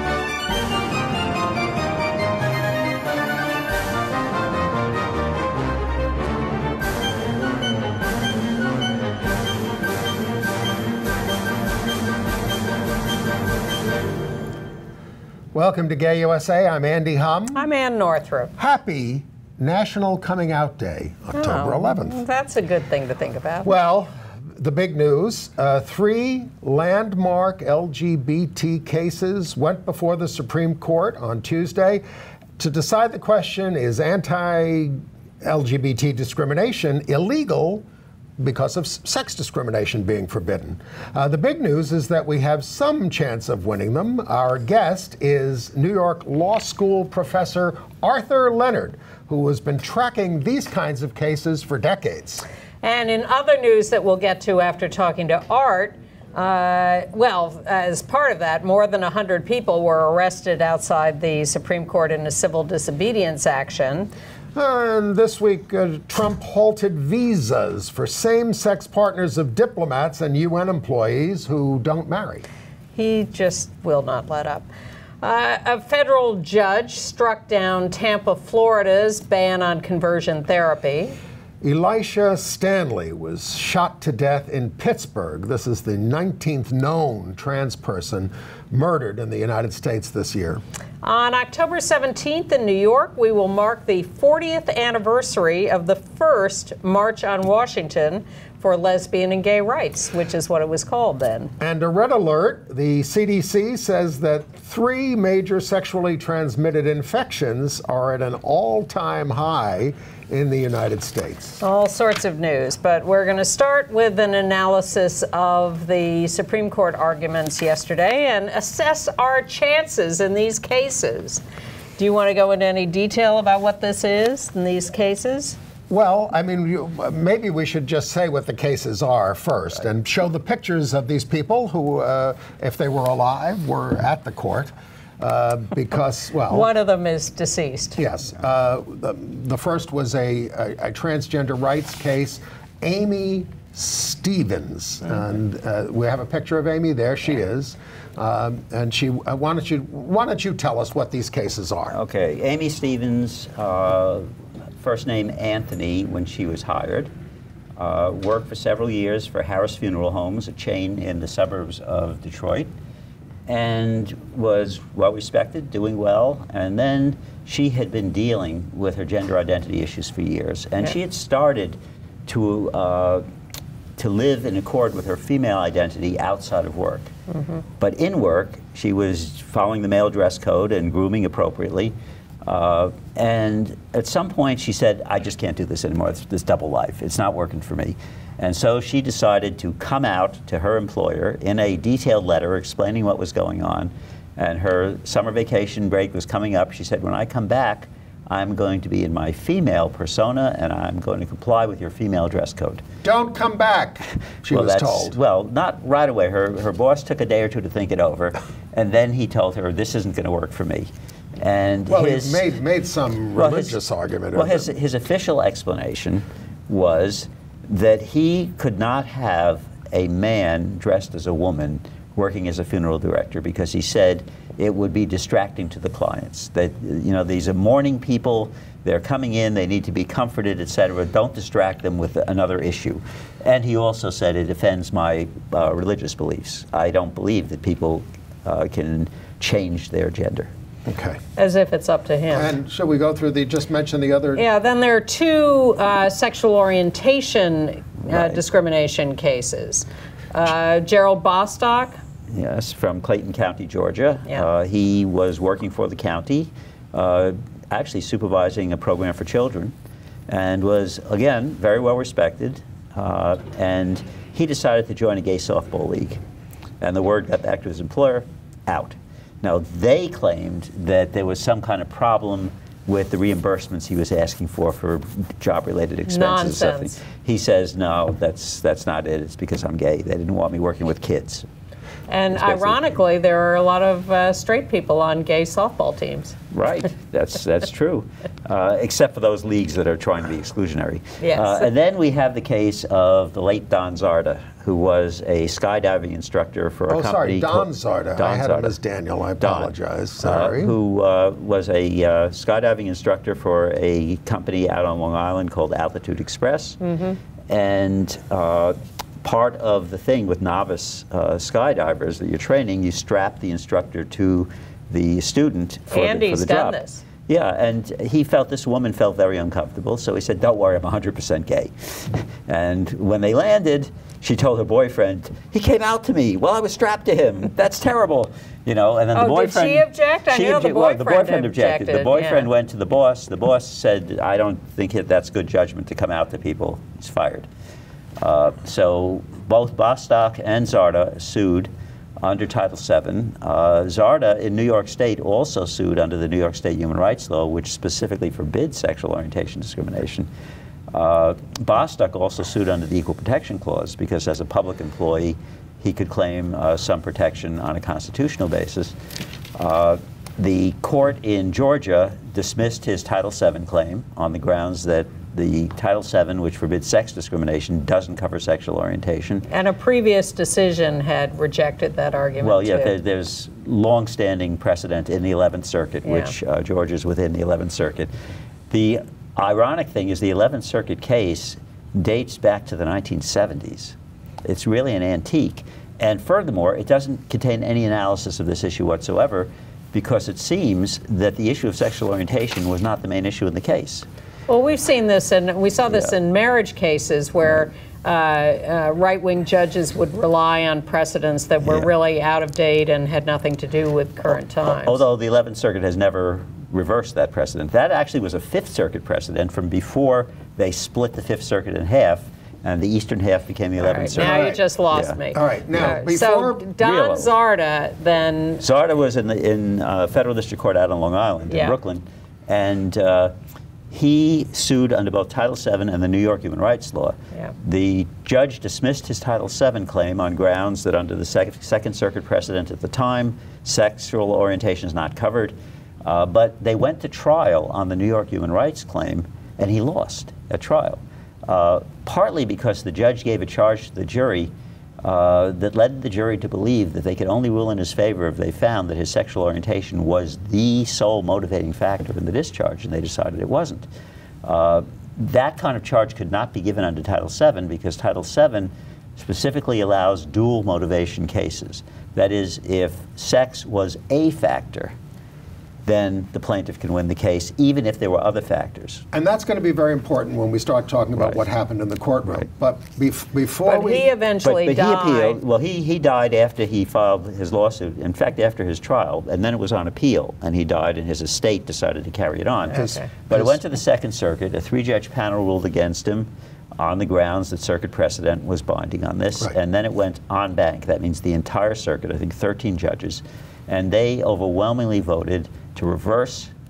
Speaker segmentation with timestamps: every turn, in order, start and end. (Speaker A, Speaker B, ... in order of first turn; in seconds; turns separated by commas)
Speaker A: 15.5-17.6, Speaker B: 17.5-18.5, Speaker A: 18.6-22.2, Speaker B: 21.3-23.8, Speaker A: 23.6-32.0, Speaker A: 32.6-37.8, Speaker A: 38.4-52.4, Speaker B: 52.8-64.1, Speaker A: 64.5-72.5, Speaker B: 72.9-74.7, Speaker B: 75.2-81.2, Speaker A: 81.6-90.6, Speaker B: 91.0-101.5, Speaker A: 101.6-111.6, Speaker B: 111.6-121.4, Speaker B: 122.0-125.6, Speaker A: 125.9-136.7, Speaker B: 136.5-138.0, Speaker A: 138.0-152.0, Speaker C: 151.9-154.3, Speaker C: 154.8-157.1, Speaker C: 157.8-162.7, Speaker C: 163.5-173.2, Speaker C: 174.0-177.1, Speaker B: 177.3-177.6, Speaker C: 177.8-202.8, Speaker A: 203.0-205.1, Speaker C: 204.5-212.4, Speaker A: 211.9-214.7, Speaker C: 213.3-213.8, Speaker C: 214.3-240.5, Speaker A: 240.8-241.2, Speaker B: 241.3-242.5, Speaker A: 242.3-244.4, Speaker B: 244.3-252.0, Speaker C: 248.1-248.4, Speaker C: 252.3-259.7, Speaker C: 260.3-266.2, Speaker C: 266.8-281.4, Speaker B: 276.1-276.9, Speaker B: 282.1-286.3, Speaker C: 282.3-282.8, Speaker C: 286.5-298.7, Speaker B: 291.2-291.7, Speaker A: 296.9-300.7, Speaker C: 299.4-306.8, Speaker B: 306.8-307.2, Speaker C: 307.5-337.5, Speaker B: 315.9-317.0, Speaker B: 329.1-332.5, Speaker C: 338.2-341.7, Speaker C: 342.2-350.3, Speaker C: 350.9-358.9, Speaker C: 359.6-369.4, Speaker B: 369.5-372.9, Speaker C: 372.4-378.1, Speaker B: 376.0-376.3, Speaker C: 378.7-394.1, Speaker B: 394.5-405.0, Speaker C: 404.6-415.2, Speaker B: 413.8-418.6, Speaker A: 414.1-414.6, Speaker A: 415.3-416.6, Speaker C: 416.8-417.3, Speaker C: 418.6-423.3, Speaker C: 423.9-444.5, Speaker C: 445.0-453.9, Speaker C: 454.4-464.9, Speaker C: 465.8-469.0, Speaker A: 469.1-474.1, Speaker B: 473.6-475.4, Speaker C: 474.4-496.5, Speaker B: 482.7-483.1, Speaker A: 482.8-483.6